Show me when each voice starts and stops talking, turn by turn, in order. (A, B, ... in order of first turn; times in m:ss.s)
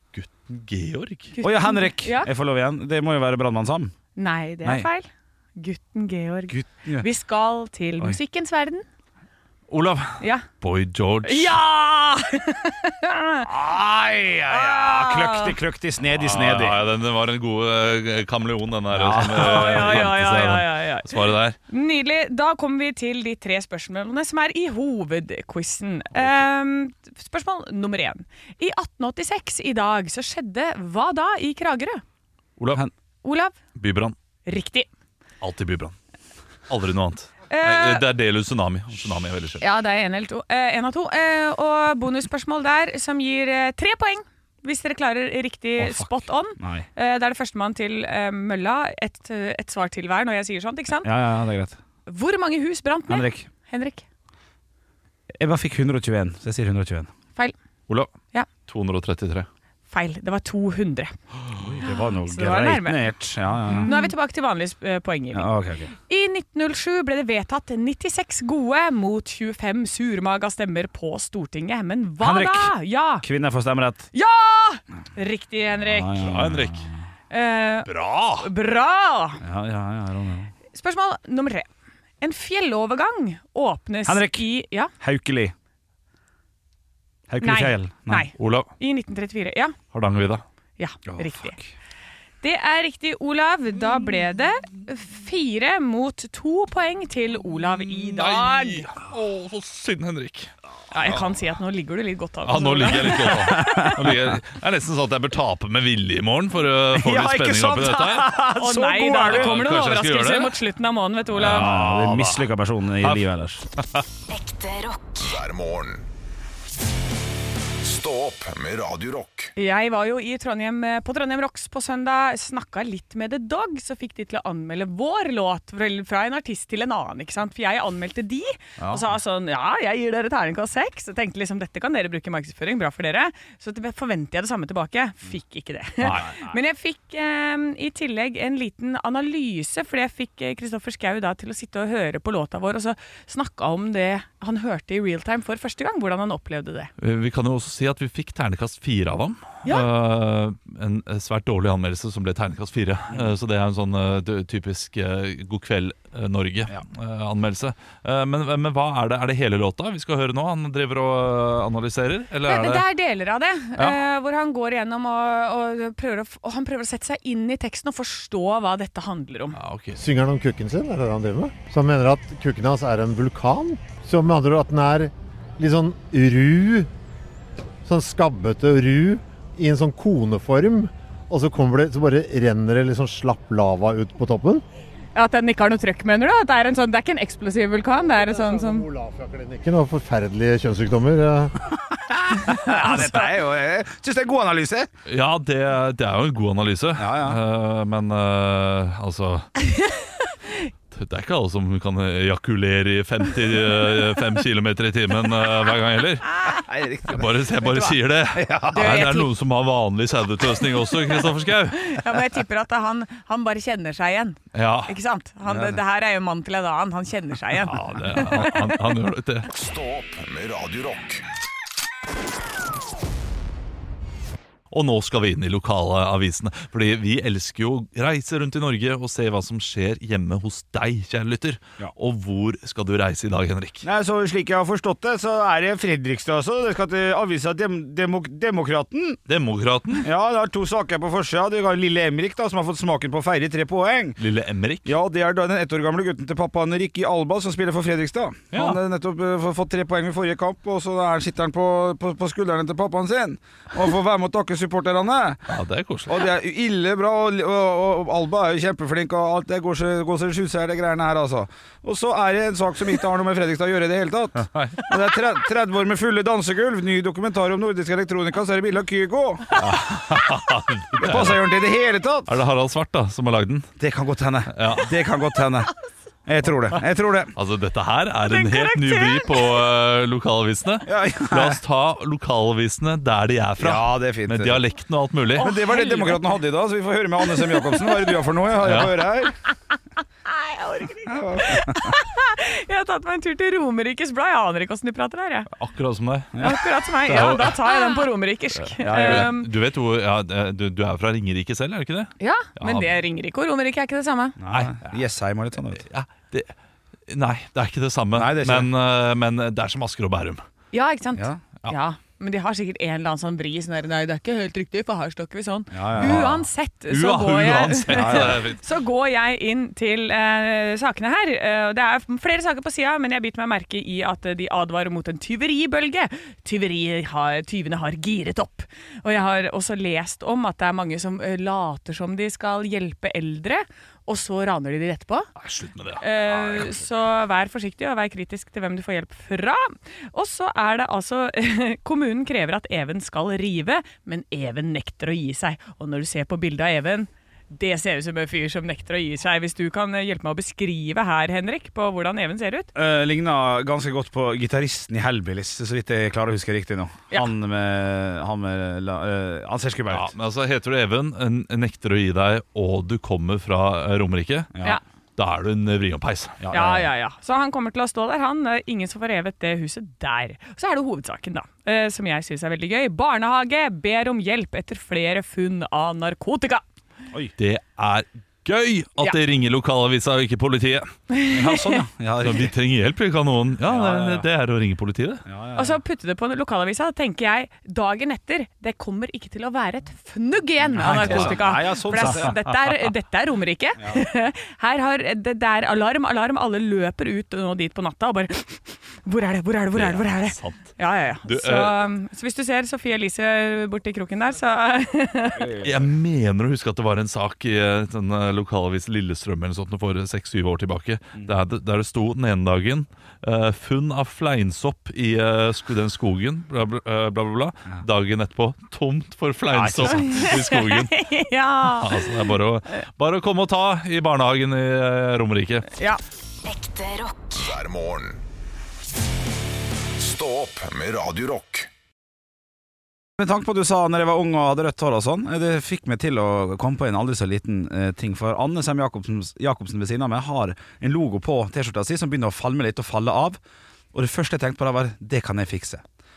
0:00.1-0:01.3 A
0:01.3-0:02.3 B
0:01.4-0:03.9 C
0:04.2-0:08.8 B
0:06.5-0:07.1 C
0:09.7-0:11.6 A
0:10.2-0:10.4 B
0:11.2-0:13.5 B
0:13.5-0:16.9 C
0:14.5-0:15.6 B
0:16.2-0:21.6 A
0:18.9-0:20.1 C
0:19.3-0:32.0 B
0:32.6-0:32.8 A
0:33.2-0:33.6 B
0:33.8-0:34.1 A
0:34.5-0:34.9 B
0:35.4-0:36.0 A
0:36.7-0:39.6 A
0:37.5-0:38.0 B
0:39.6-0:51.1 B
0:45.8-0:46.9 C
0:51.0-0:51.8 C
0:52.1-0:54.0 B
0:53.1-0:53.5 C
0:55.4-0:57.1 C
0:58.7-0:59.5 A
0:59.9-1:01.2 B
1:01.6-1:03.9 C
1:01.8-1:03.0 B
1:03.8-1:05.5 B
1:05.3-1:05.9 C
1:06.1-1:13.3 B
1:12.2-1:14.1 C
1:14.1-1:16.3 B
1:15.8-1:17.0 C
1:16.2-1:16.9 A
1:17.3-1:19.4 B
1:17.9-1:18.5 A
1:19.4-1:20.5 C
1:20.7-1:21.7 B
1:22.2-1:24.9 B
1:24.1-1:24.4 C
1:25.0-1:25.5 C
1:27.3-1:28.3 C
1:27.4-1:29.8 B
1:28.4-1:28.7 A
1:29.9-1:30.4 A
1:30.8-1:31.6 B
1:31.1-1:31.7 C
1:32.4-1:38.9 B
1:38.0-1:40.5 A
1:40.9-1:44.1 B
1:42.4-1:48.3 A
1:43.2-1:44.3 C
1:46.9-1:49.6 C
1:48.4-1:51.7 B
1:49.2-1:50.5 A
1:51.4-1:52.5 A
1:51.4-1:53.6 C
1:53.0-1:53.3 A
1:54.3-1:55.3 D
1:55.2-1:56.0 E
1:57.8-1:59.5 E
1:59.6-2:26.9 B
2:08.8-2:09.1 C
2:16.0-2:16.5 C
2:16.0-2:16.3 A
2:27.0-2:42.8 A
2:42.5-2:49.6 B
2:49.6-2:50.0 A
2:50.0-2:56.9 F
2:57.8-3:04.6 F
3:05.2-3:08.9 B
3:08.1-3:11.7 F
3:12.1-3:14.9 C
3:12.5-3:13.2 B
3:15.1-3:19.5 A
3:17.0-3:17.4 C
3:19.6-3:20.7 B
3:20.9-3:26.4 A
3:26.5-3:29.1 C
3:27.1-3:32.0 A
3:28.7-3:29.3 B
3:31.8-3:38.7 B
3:34.5-3:34.9 A
3:35.5-3:35.8 C
3:37.6-3:39.5 A
3:39.5-3:41.2 E
3:44.7-3:53.9 A
3:53.8-3:59.2 C
3:59.3-4:00.1 A
4:00.0-4:04.2 C
4:04.2-4:04.9 A
4:04.8-4:15.4 C
4:08.5-4:08.8 A
4:15.5-4:16.3 A
4:16.1-4:30.0 C
4:24.4-4:24.8 A
4:29.6-4:31.5 A
4:31.0-4:32.4 C
4:32.3-4:33.7 A
4:33.8-4:35.7 C
4:34.5-4:34.9 A
4:36.2-4:37.3 C
4:37.4-4:45.5 A
4:38.3-4:39.6 B
4:40.9-4:41.6 C
4:43.6-4:44.6 C
4:45.4-4:49.3 C
4:45.4-4:46.3 B
4:47.4-4:48.0 B
4:48.6-4:49.0 A
4:50.3-4:55.5 B
4:51.1-4:51.9 C
4:55.5-4:57.6 A
4:56.3-4:56.6 C
4:56.4-4:59.5 B
4:58.8-4:59.3 C
4:58.8-5:02.9 A
5:02.2-5:04.4 B
5:04.4-5:05.8 C
5:04.5-5:04.9 A
5:05.8-5:06.5 A
5:07.1-5:10.4 A
5:08.2-5:08.7 C
5:10.7-5:35.3 B
5:11.2-5:11.4 C
5:15.7-5:16.4 C
5:16.0-5:16.3 A
5:16.9-5:18.6 A
5:17.9-5:18.4 C
5:35.4-5:36.8 A
5:36.0-5:52.7 B
5:52.8-6:00.1 C
5:59.9-6:04.5 A
6:04.5-6:04.8 C
6:05.2-6:06.4 A
6:06.4-6:06.9 C
6:06.5-6:16.6 B
6:17.4-6:20.9 A
6:21.1-6:21.8 B
6:21.3-6:22.5 C
6:22.2-6:25.2 A
6:23.7-6:24.3 C
6:25.3-6:25.8 C
6:25.6-6:45.5 B
6:30.8-6:32.4 C
6:30.8-6:31.4 A
6:33.8-6:34.0 C
6:39.7-6:41.8 A
6:45.3-6:45.9 C
6:45.6-7:01.0 A
6:59.5-7:00.2 C
6:59.9-7:02.2 B
7:01.7-7:05.7 A
7:06.4-7:07.5 D
7:07.4-7:08.2 E
7:10.0-7:11.7 E
7:13.2-7:23.4 C
7:23.9-7:25.8 C